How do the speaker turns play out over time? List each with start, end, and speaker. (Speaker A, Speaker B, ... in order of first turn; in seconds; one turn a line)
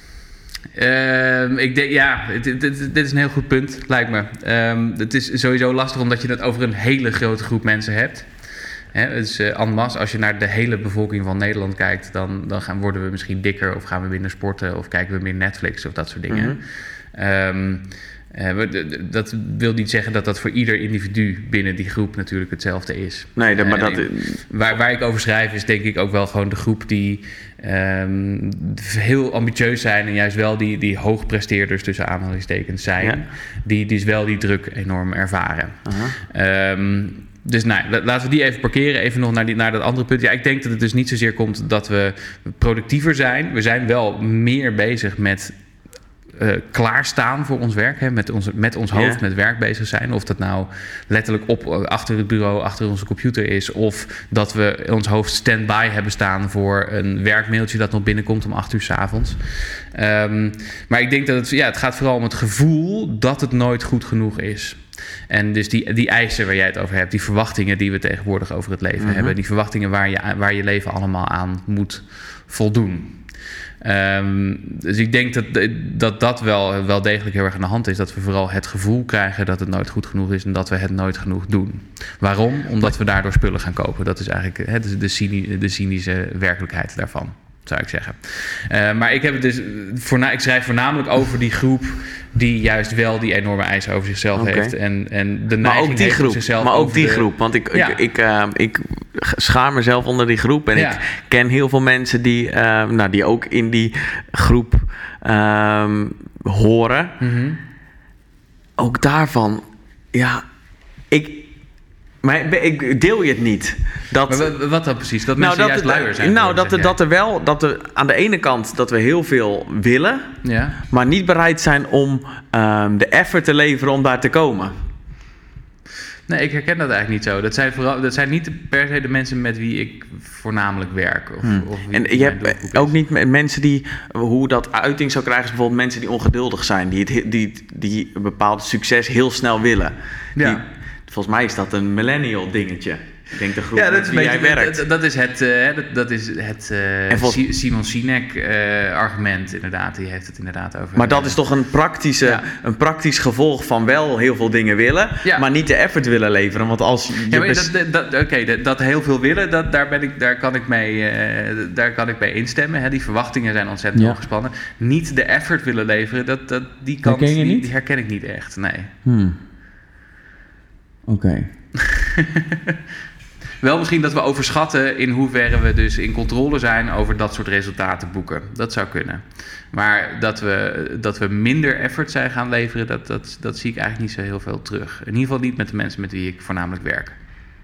Speaker A: 0.7-45.6
Speaker B: 16.3-16.6
Speaker B: 23.4-24.4
Speaker B: 35.8-36.2
Speaker A: 46.3-98.1
Speaker B: 48.9-49.2
Speaker B: 69.0-69.3
Speaker B: 94.3-94.8
Speaker B: 95.6-107.1
Speaker A: 100.7-101.0
Speaker A: 107.2-107.6
Speaker B: 108.8-109.6
Speaker B: 110.1-110.4
Speaker B: 111.1-111.5
Speaker B: 112.2-114.5
Speaker A: 114.3-117.0
Speaker B: 115.3-120.2
Speaker A: 120.4-120.8
Speaker B: 120.9-124.7
Speaker A: 126.3-133.0
Speaker B: 131.4-144.8
Speaker A: 140.3-140.6
Speaker A: 143.7-151.4
Speaker B: 147.1-147.4
Speaker B: 150.9-157.7
Speaker A: 152.2-152.5
Speaker A: 155.2-155.5
Speaker A: 157.2-168.9
Speaker B: 163.9-164.2
Speaker B: 167.0-167.7
Speaker B: 169.0-169.4
Speaker B: 171.1-171.4
Speaker A: 171.7-172.8
Speaker A: 173.6-187.2